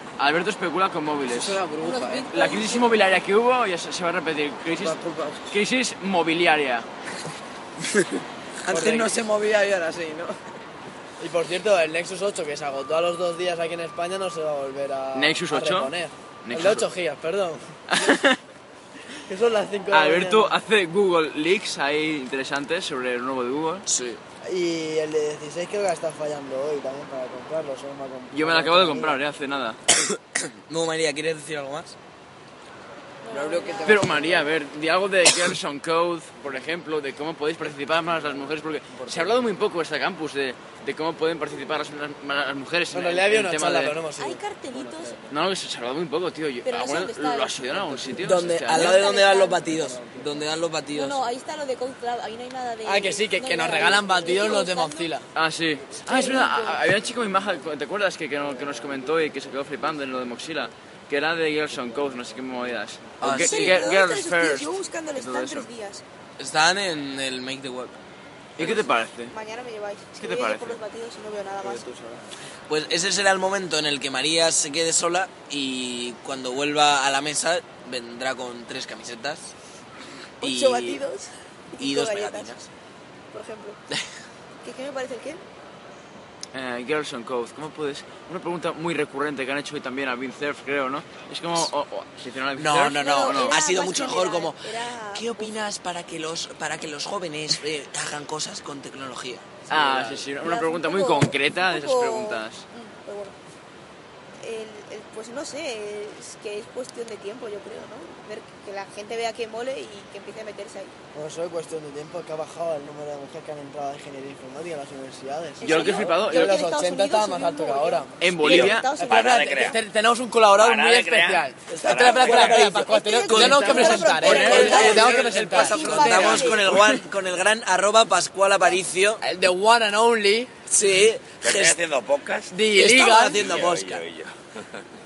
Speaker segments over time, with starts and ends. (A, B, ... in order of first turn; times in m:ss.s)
0:00.2-0:01.6 A
0:01.2-0:02.3 B
0:01.8-0:03.0 C
0:02.3-0:06.9 A
0:04.7-0:05.5 B
0:08.6-0:10.4 B
0:08.7-0:09.1 D
0:11.2-0:18.1 D
0:15.2-0:15.9 A
0:16.4-0:16.9 A
0:17.9-0:18.4 A
0:19.3-0:20.6 D
0:19.9-0:23.9 A
0:23.9-0:24.2 E
0:24.4-0:29.2 D
0:28.3-0:29.8 A
0:29.9-0:32.0 E
0:33.2-0:34.2 C
0:33.3-0:34.5 B
0:33.8-0:44.0 A
0:39.0-0:39.4 B
0:42.9-0:44.9 D
0:44.2-0:45.3 C
0:45.3-0:49.0 A
0:46.6-0:47.7 C
0:47.7-0:48.2 B
0:48.2-0:51.2 E
0:48.8-0:49.7 C
0:49.8-0:50.2 D
0:50.9-0:55.1 C
0:52.8-0:55.2 D
0:55.4-1:05.7 A
0:56.0-0:56.9 C
1:03.2-1:03.9 E
1:03.3-1:06.0 C
1:06.4-1:08.0 E
1:08.6-1:09.3 A
1:08.7-1:12.1 C
1:10.2-1:10.8 A
1:12.7-1:19.5 E
1:20.4-1:21.0 E
1:20.4-1:22.6 C
1:21.8-1:22.7 E
1:23.3-1:23.8 C
1:24.6-1:25.4 C
1:26.5-1:33.6 A
1:32.6-1:40.3 E
1:32.9-1:35.5 C
1:39.7-1:42.6 A
1:40.4-1:43.4 C
1:44.4-1:50.9 C
1:51.1-1:58.1 D
1:55.6-1:59.8 C
1:55.6-1:56.6 A
1:58.2-1:58.9 A
1:58.4-1:59.8 F
1:58.8-2:06.2 D
2:00.5-2:02.7 F
2:01.7-2:09.2 E
2:02.5-2:06.8 C
2:04.2-2:04.9 A
2:04.2-2:06.7 B
2:09.2-2:10.5 D
2:10.7-2:11.8 E
2:11.4-2:12.6 F
2:12.5-2:13.4 D
2:12.7-2:14.0 E
2:13.3-2:14.8 F